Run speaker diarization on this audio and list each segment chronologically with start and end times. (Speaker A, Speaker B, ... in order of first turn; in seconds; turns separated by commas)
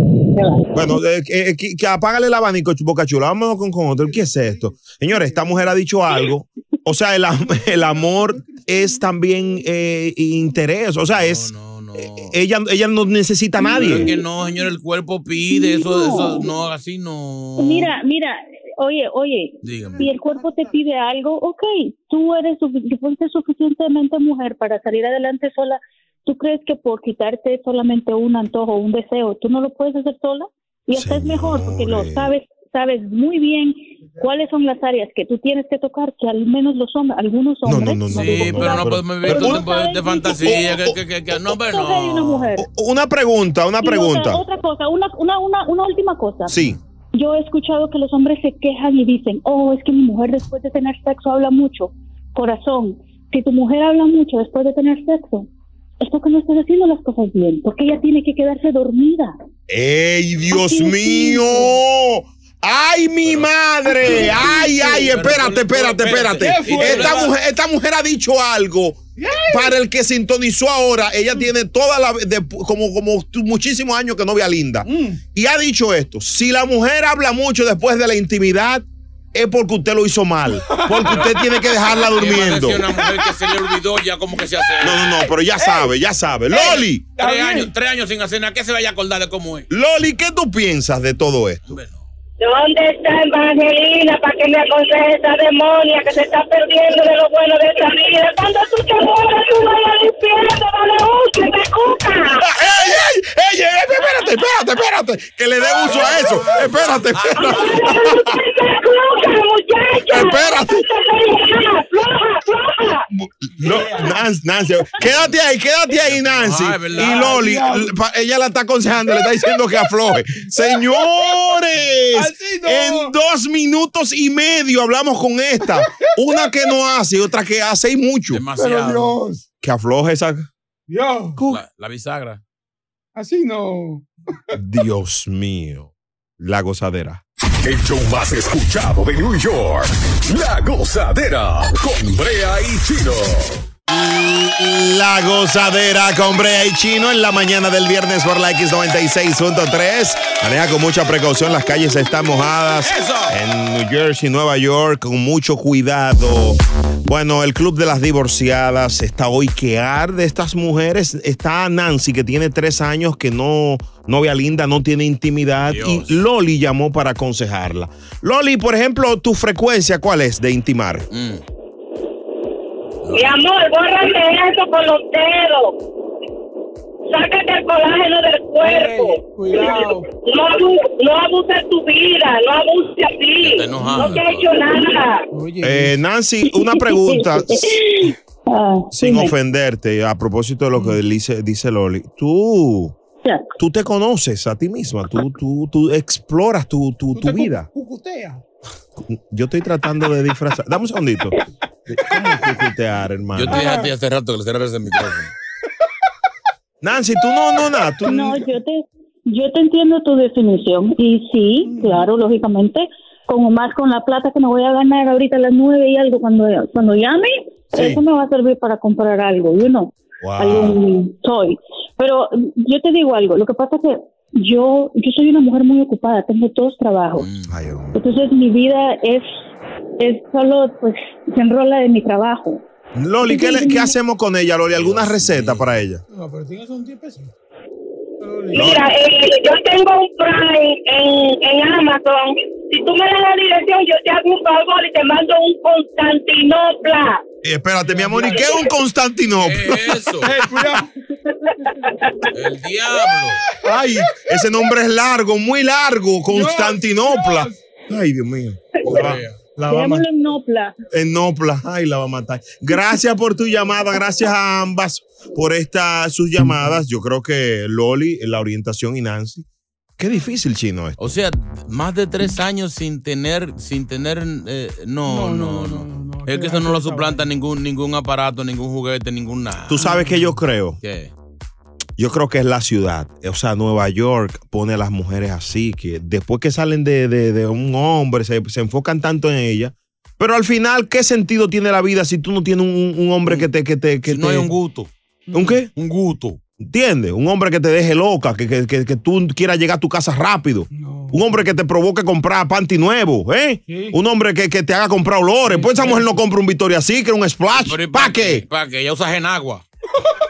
Speaker A: 0.7-14.1, Speaker B: 4.1-4.6, Speaker B: 5.1-5.5, Speaker B: 7.5-9.0, Speaker C: 11.1-12.3, Speaker C: 13.7-17.9, Speaker D: 15.5-16.4, Speaker D: 17.6-40.7, Speaker C: 19.6-20.1, Speaker A: 30.9-32.3, Speaker A: 37.6-39.6, Speaker C: 38.1-42.5, Speaker A: 40.4-41.0, Speaker D: 41.6-42.6, Speaker A: 42.6-44.4, Speaker D: 43.8-46.5, Speaker A: 46.5-46.8, Speaker D: 47.1-55.5, Speaker D: 56.0-59.3, Speaker A: 59.7-82.9, Speaker D: 60.5-61.6, Speaker C: 64.1-67.3, Speaker B: 64.2-65.1, Speaker B: 66.4-67.2, Speaker B: 69.2-69.7, Speaker B: 74.8-75.2, Speaker B: 80.6-82.1, Speaker C: 82.1-85.0, Speaker B: 83.3-83.5, Speaker A: 84.8-87.0, Speaker B: 86.5-87.7, Speaker C: 86.5-89.7, Speaker A: 89.7-91.8, Speaker C: 91.7-92.0, Speaker E: 92.4-102.5, Speaker A: 102.3-108.3, Speaker B: 105.9-106.7, Speaker E: 107.4-113.0, Speaker A: 110.1-110.8, Speaker A: 113.4-128.4, Speaker B: 113.6-114.2, Speaker C: 115.0-115.3, Speaker C: 116.1-117.4, Speaker B: 117.0-117.9, Speaker B: 122.1-123.1, Speaker B: 126.0-126.5, Speaker C: 128.3-129.2, Speaker B: 128.6-129.4, Speaker A: 129.6-130.5, Speaker B: 130.9-131.4, Speaker A: 131.3-131.6, Speaker C: 131.5-132.4, Speaker B: 133.2-134.1, Speaker A: 134.6-135.9, Speaker A: 136.4-137.2, Speaker F: 137.6-143.6, Speaker A: 144.3-171.0, Speaker C: 165.7-166.2, Speaker C: 171.1-171.4, Speaker C: 173.0-173.4, Speaker E: 173.1-175.8, Speaker E: 177.1-185.2, Speaker B: 178.6-180.1, Speaker C: 183.4-184.5, Speaker B: 183.9-184.1, Speaker B: 185.3-185.9, Speaker A: 185.6-187.7, Speaker D: 186.5-189.3, Speaker A: 188.9-192.9, Speaker A: 193.6-197.7, Speaker B: 197.1-198.4, Speaker A: 199.0-201.3, Speaker A: 201.9-203.7, Speaker B: 202.1-202.4, Speaker C: 203.3-205.3, Speaker B: 203.5-203.9, Speaker A: 206.8-208.4, Speaker D: 208.0-227.3, Speaker B: 211.7-212.1, Speaker A: 220.2-220.8, Speaker C: 227.2-227.5, Speaker A: 227.5-228.0, Speaker D: 227.9-229.3, Speaker D: 230.0-232.6, Speaker A: 232.9-236.0, Speaker D: 233.2-234.0, Speaker C: 234.7-235.8, Speaker B: 236.1-237.3, Speaker B: 238.2-238.7, Speaker A: 238.5-238.9, Speaker E: 238.5-247.2, Speaker A: 247.4-250.0, Speaker B: 247.8-248.6, Speaker C: 249.4-250.4, Speaker B: 250.2-250.9, Speaker C: 252.3-253.4, Speaker A: 253.6-260.1, Speaker B: 254.1-254.4, Speaker B: 256.3-257.6, Speaker C: 258.9-259.4, Speaker D: 259.6-260.7, Speaker A: 260.9-269.4, Speaker A: 270.0-271.0, Speaker C: 271.0-279.9, Speaker B: 275.1-277.3, Speaker A: 279.7-280.8, Speaker B: 279.8-280.4, Speaker C: 280.8-281.1, Speaker A: 282.0-294.5, Speaker C: 293.2-293.5, Speaker C: 294.1-294.9, Speaker B: 295.3-295.6, Speaker A: 295.3-295.7, Speaker C: 295.7-296.4, Speaker A: 296.6-308.4, Speaker B: 300.7-301.4, Speaker B: 303.7-304.0, Speaker B: 305.5-306.1, Speaker C: 307.6-309.6